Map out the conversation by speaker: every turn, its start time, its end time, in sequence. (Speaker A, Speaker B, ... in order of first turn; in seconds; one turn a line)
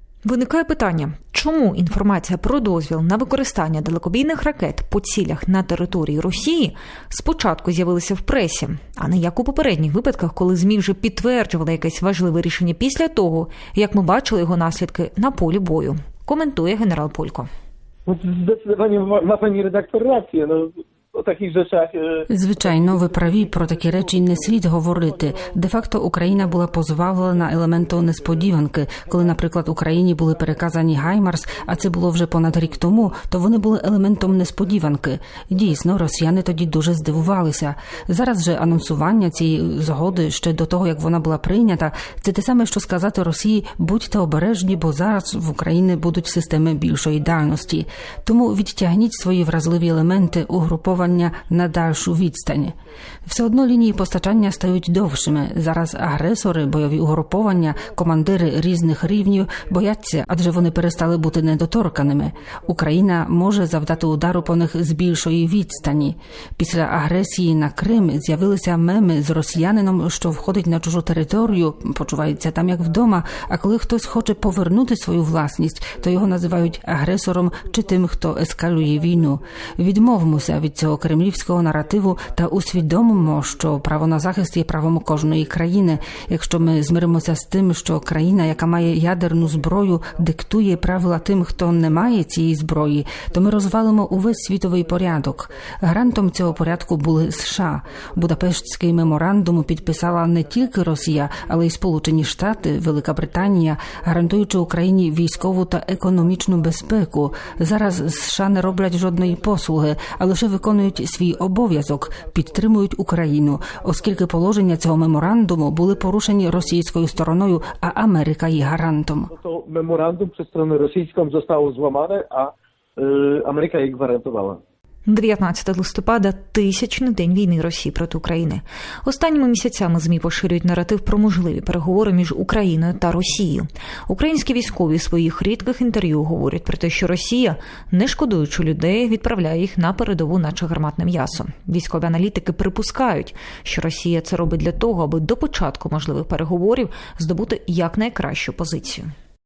Speaker A: 0.2-17.5
Speaker B: 18.1-33.2
Speaker C: 22.3-52.7
Speaker B: 33.7-48.2
Speaker B: 49.1-51.7
Speaker C: 53.2-119.3
Speaker B: 53.6-55.5
Speaker B: 57.4-63.0
Speaker B: 63.5-68.6
Speaker B: 69.5-74.7
Speaker B: 75.9-76.9
Speaker B: 77.4-78.1
Speaker B: 78.8-79.6
Speaker B: 80.1-80.5
Speaker B: 81.7-87.4
Speaker B: 87.9-101.7
Speaker B: 102.4-112.7
Speaker B: 113.5-115.0
Speaker B: 115.8-118.0
Speaker B: 119.3-124.6
Speaker A: 125.1-149.1